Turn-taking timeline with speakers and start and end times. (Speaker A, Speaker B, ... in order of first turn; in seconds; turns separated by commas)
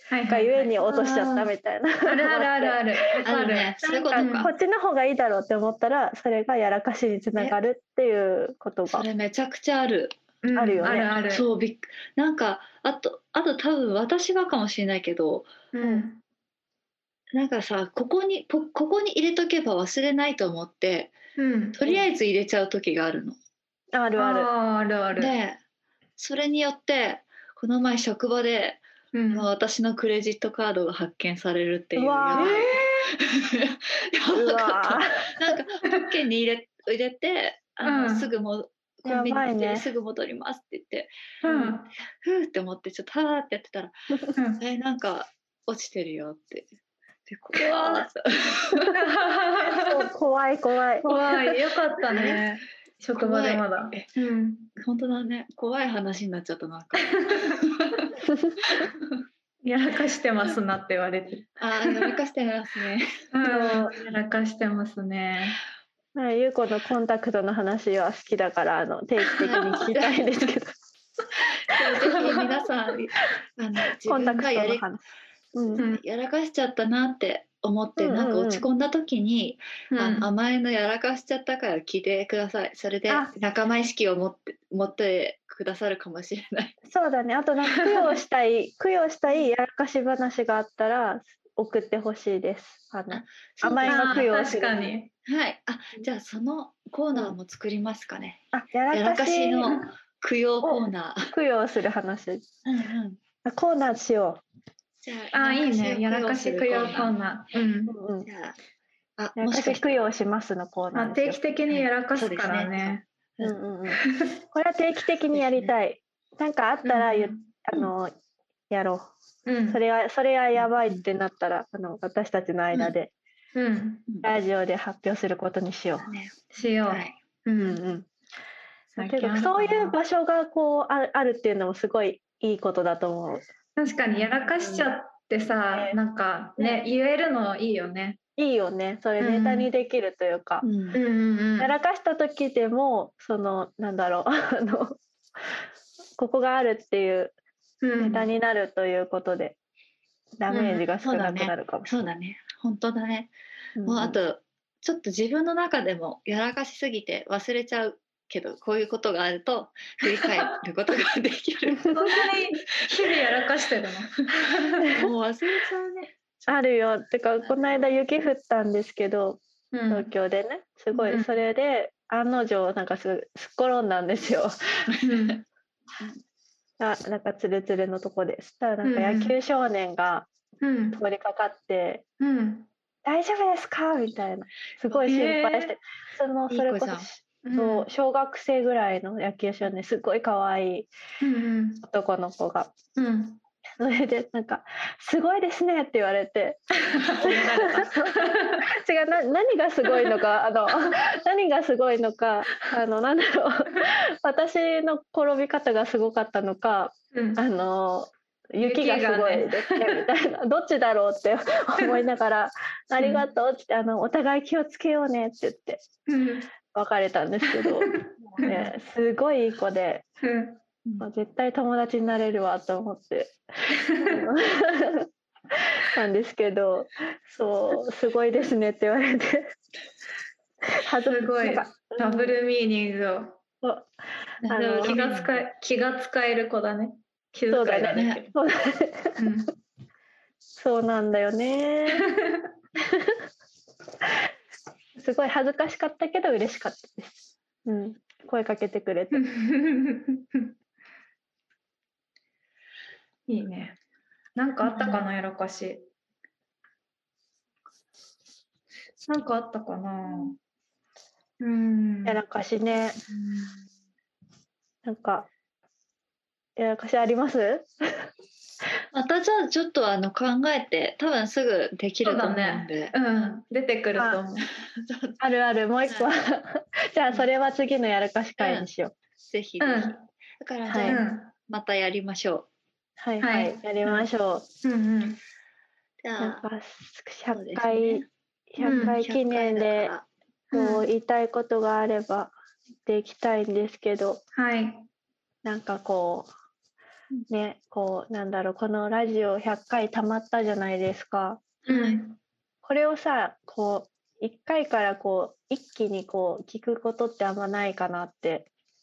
Speaker A: 0.1-1.5, Speaker B: 0.3-3.1, Speaker A: 2.0-4.5, Speaker C: 3.2-4.5, Speaker B: 3.8-9.1, Speaker C: 8.9-10.1, Speaker A: 10.4-11.4, Speaker B: 10.6-11.1, Speaker C: 11.2-15.5, Speaker A: 15.7-16.2, Speaker C: 17.3-21.2, Speaker A: 21.4-21.8, Speaker C: 21.8-23.4, Speaker B: 23.9-24.5, Speaker A: 24.2-25.3, Speaker C: 25.1-25.6, Speaker C: 26.2-41.1, Speaker A: 29.1-29.4, Speaker B: 31.9-32.7, Speaker A: 32.3-33.1, Speaker B: 34.3-35.5, Speaker A: 37.8-38.3, Speaker B: 39.0-39.9, Speaker A: 41.4-41.9, Speaker B: 41.5-41.8, Speaker C: 42.2-46.7, Speaker A: 44.3-44.6, Speaker C: 47.3-49.0, Speaker A: 47.6-48.0, Speaker A: 48.8-49.9, Speaker B: 49.7-51.1, Speaker A: 51.0-54.7, Speaker C: 52.1-52.4, Speaker C: 53.2-54.0, Speaker C: 54.8-58.1, Speaker A: 57.1-57.6, Speaker B: 58.2-58.8, Speaker C: 58.6-59.1, Speaker A: 59.6-62.1, Speaker C: 61.6-63.3, Speaker A: 63.3-65.6, Speaker B: 63.4-63.9, Speaker B: 66.1-70.8, Speaker C: 69.4-70.2, Speaker C: 71.6-74.8, Speaker B: 74.0-75.0, Speaker B: 75.5-75.8, Speaker C: 75.7-86.8, Speaker B: 78.0-78.6, Speaker A: 79.9-80.3, Speaker B: 86.8-94.9, Speaker A: 87.7-88.0, Speaker C: 93.1-94.3, Speaker A: 93.9-95.1, Speaker C: 95.2-101.3, Speaker B: 98.5-99.8, Speaker B: 100.6-102.5, Speaker C: 102.6-103.2, Speaker B: 103.4-104.4, Speaker C: 105.0-107.1, Speaker A: 105.3-108.0, Speaker B: 107.9-108.3, Speaker C: 108.2-108.6, Speaker C: 109.2-110.1, Speaker B: 109.4-111.4, Speaker A: 110.9-113.0, Speaker C: 111.7-113.5, Speaker B: 113.4-118.1, Speaker C: 115.3-115.7, Speaker A: 116.8-117.5, Speaker B: 118.7-119.1, Speaker A: 119.5-119.8, Speaker B: 119.7-123.1, Speaker C: 120.5-121.0, Speaker A: 123.5-124.0, Speaker B: 124.2-126.1, Speaker C: 126.0-127.1, Speaker A: 126.5-127.8, Speaker B: 127.6-128.1, Speaker A: 128.9-130.0, Speaker B: 129.0-133.4, Speaker A: 133.8-138.2, Speaker C: 134.6-134.9, Speaker B: 138.4-140.6, Speaker A: 139.2-139.7, Speaker C: 140.6-141.0, Speaker A: 140.9-141.7, Speaker B: 141.6-145.6, Speaker B: 146.2-147.3, Speaker A: 147.8-148.3, Speaker B: 148.0-149.6, Speaker B: 150.4-151.9, Speaker A: 150.5-150.8, Speaker C: 151.0-153.3, Speaker B: 153.8-154.2, Speaker C: 153.8-162.3, Speaker B: 161.7-162.1, Speaker A: 161.9-165.0, Speaker C: 164.8-166.6, Speaker B: 164.8-165.1, Speaker B: 166.5-174.9, Speaker C: 167.4-167.8, Speaker A: 169.7-170.1, Speaker C: 170.9-171.2, Speaker A: 171.1-171.3, Speaker C: 174.9-175.3, Speaker A: 175.0-175.4, Speaker B: 176.8-180.3, Speaker A: 178.8-179.4, Speaker A: 180.6-181.0, Speaker B: 180.9-182.0, Speaker A: 182.2-182.7, Speaker B: 183.0-190.9, Speaker A: 185.1-185.7, Speaker C: 186.5-187.1, Speaker A: 187.4-187.9, Speaker A: 191.2-191.8, Speaker B: 191.8-192.7, Speaker A: 192.9-193.4, Speaker B: 193.8-215.8, Speaker A: 196.8-198.6, Speaker A: 207.1-207.4, Speaker A: 208.6-210.0, Speaker A: 213.0-213.2, Speaker A: 216.1-216.5, Speaker B: 216.7-220.0, Speaker A: 217.5-218.6, Speaker C: 218.3-218.7, Speaker A: 220.2-220.6, Speaker B: 221.0-229.5, Speaker A: 223.7-224.2, Speaker B: 230.6-232.3, Speaker A: 231.0-233.4, Speaker B: 233.6-233.9, Speaker C: 234.4-235.4, Speaker B: 234.5-235.0, Speaker A: 234.8-238.3, Speaker B: 237.5-239.2, Speaker C: 237.9-238.2, Speaker A: 239.2-239.5, Speaker B: 240.6-242.1, Speaker A: 241.9-242.4, Speaker B: 242.8-243.2, Speaker B: 244.0-244.3, Speaker B: 245.0-249.2, Speaker A: 249.1-250.5, Speaker A: 253.3-253.8, Speaker A: 254.3-255.9, Speaker C: 254.6-255.0, Speaker A: 259.1-260.4, Speaker A: 261.4-262.2, Speaker B: 262.1-263.0, Speaker C: 263.1-263.5, Speaker B: 264.8-265.3, Speaker B: 266.6-268.1, Speaker C: 268.9-272.9, Speaker A: 272.0-274.5, Speaker B: 273.9-274.2, Speaker C: 274.6-275.2, Speaker B: 275.2-278.9, Speaker C: 278.4-278.7, Speaker C: 279.3-282.5, Speaker A: 279.6-280.0, Speaker B: 280.7-281.0, Speaker A: 280.9-281.3, Speaker B: 283.0-284.4, Speaker A: 283.2-283.9, Speaker A: 284.6-285.2, Speaker C: 286.0-286.4, Speaker B: 286.2-289.9, Speaker C: 287.3-288.1, Speaker A: 288.6-289.0, Speaker C: 288.7-290.1, Speaker A: 290.5-290.9, Speaker B: 290.5-292.3, Speaker B: 292.9-294.2, Speaker A: 294.3-294.9, Speaker B: 295.4-296.3, Speaker B: 297.3-301.4, Speaker A: 301.7-302.2, Speaker C: 301.7-302.0, Speaker B: 302.6-308.5